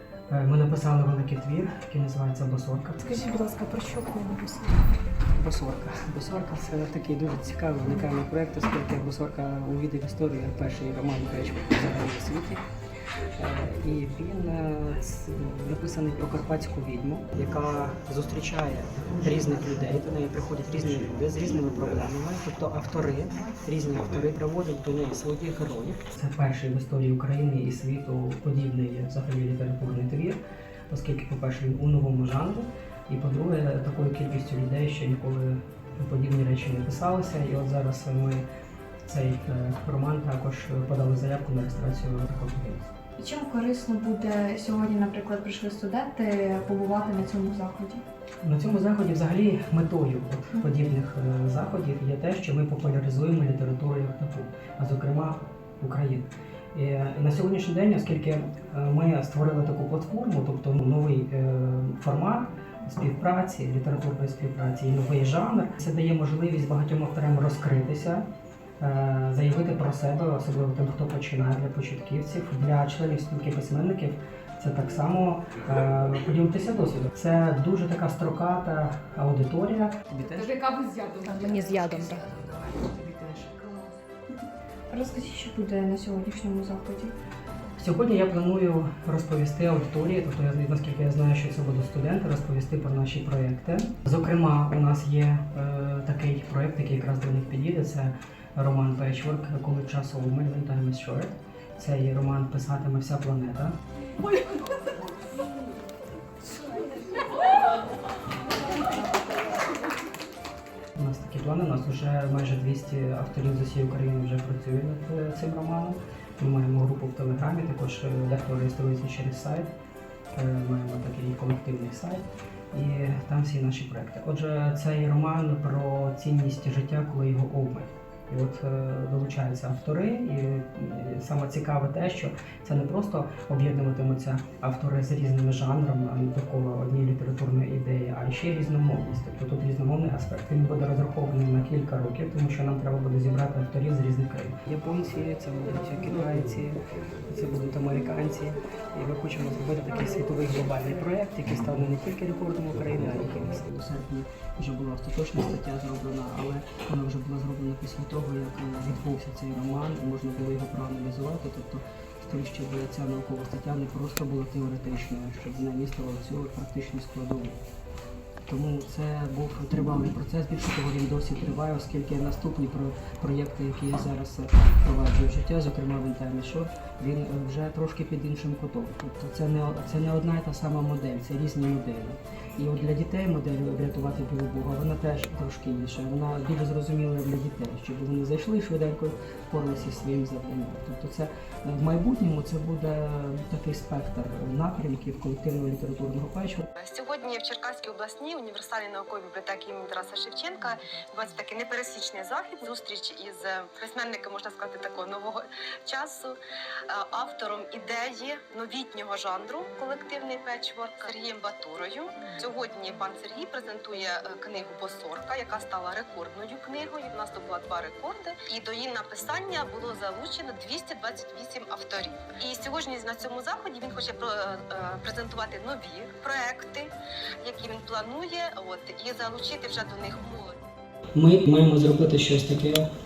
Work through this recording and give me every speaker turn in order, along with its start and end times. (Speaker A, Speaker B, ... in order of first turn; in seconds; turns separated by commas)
Speaker A: 0.3-3.3, Speaker B: 3.2-4.8, Speaker A: 5.3-12.7, Speaker A: 13.3-38.5, Speaker A: 39.0-42.9, Speaker B: 43.2-48.0, Speaker A: 48.4-68.2, Speaker A: 68.8-80.6, Speaker B: 80.3-83.9, Speaker B: 84.9-87.1, Speaker A: 87.8-103.8, Speaker A: 111.0-119.7, Speaker A: 120.3-167.6, Speaker A: 168.5-196.7, Speaker C: 196.8-206.3, Speaker C: 206.9-226.9, Speaker C: 227.4-230.6, Speaker A: 231.2-232.9